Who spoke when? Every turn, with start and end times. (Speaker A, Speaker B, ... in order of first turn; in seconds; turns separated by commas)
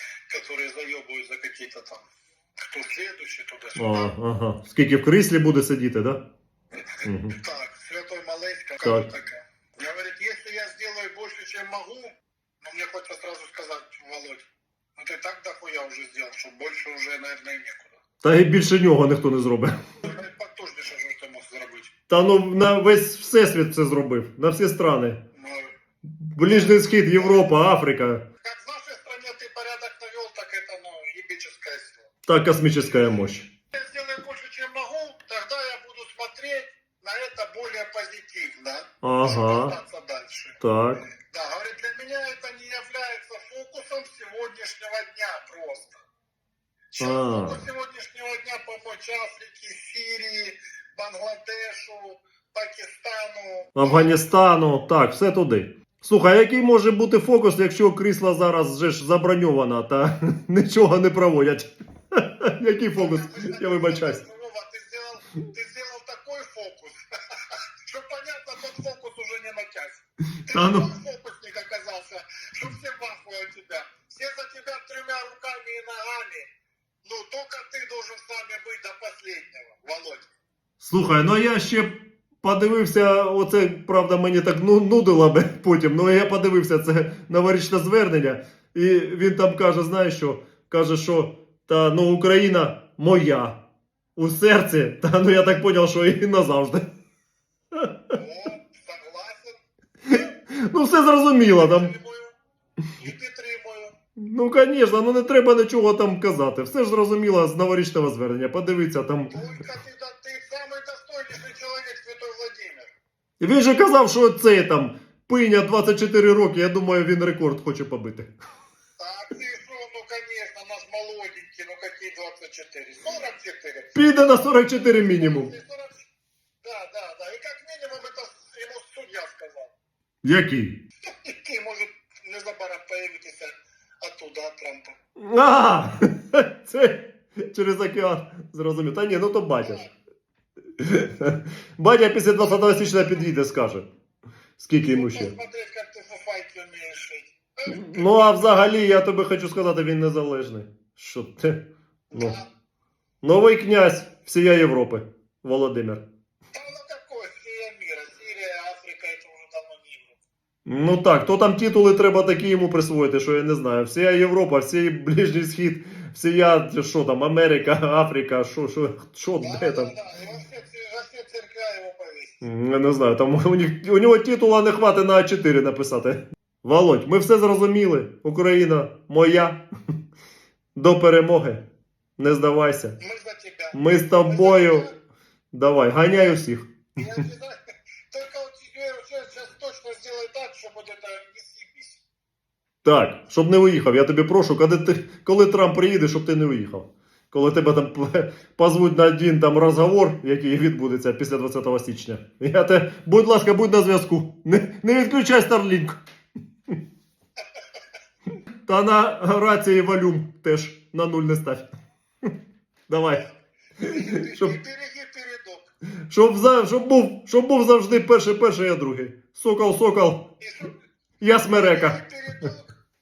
Speaker A: 0.3-2.1, Speaker A: 2.6-4.1, Speaker B: 3.8-6.2, Speaker B: 7.0-7.3, Speaker A: 7.4-14.4, Speaker A: 15.0-18.0, Speaker B: 18.2-19.8, Speaker A: 20.0-21.9, Speaker B: 22.1-25.2, Speaker A: 25.3-25.7, Speaker B: 26.2-28.2, Speaker A: 26.4-27.4, Speaker A: 28.4-32.1, Speaker B: 32.3-33.5, Speaker A: 33.7-40.6, Speaker B: 39.0-39.7, Speaker B: 40.6-41.0, Speaker A: 41.2-46.0, Speaker A: 46.9-54.1, Speaker B: 47.0-47.6, Speaker B: 53.7-64.2, Speaker A: 62.9-76.5, Speaker B: 70.5-70.9, Speaker A: 77.0-80.3, Speaker B: 80.8-93.6, Speaker B: 94.2-96.9, Speaker A: 98.1-99.6, Speaker B: 100.1-101.9, Speaker A: 101.4-102.3, Speaker A: 103.0-104.0, Speaker B: 104.2-109.3, Speaker A: 109.3-112.9, Speaker B: 113.4-118.3, Speaker A: 119.0-126.1, Speaker B: 123.9-125.5, Speaker A: 126.6-129.7, Speaker B: 130.2-130.8, Speaker A: 131.1-134.9, Speaker B: 135.2-139.8, Speaker A: 139.6-139.9, Speaker B: 140.8-143.9, Speaker A: 142.4-143.3, Speaker B: 144.6-145.3, Speaker A: 144.8-148.6, Speaker B: 147.7-152.3, Speaker A: 152.1-152.4, Speaker B: 153.2-156.0, Speaker A: 156.5-160.2, Speaker B: 160.7-169.9, Speaker A: 169.4-172.4, Speaker B: 172.4-179.6, Speaker B: 180.7-181.6, Speaker B: 182.2-183.0, Speaker A: 183.0-185.0, Speaker B: 183.7-184.9, Speaker B: 185.5-187.2, Speaker A: 186.1-186.4, Speaker A: 186.9-187.6, Speaker A: 188.1-192.0, Speaker B: 192.8-206.0, Speaker B: 208.6-211.7, Speaker B: 212.9-213.2, Speaker B: 213.8-214.5, Speaker A: 213.8-215.7, Speaker B: 216.1-220.3, Speaker A: 220.4-220.7, Speaker B: 221.2-222.0, Speaker A: 221.4-222.7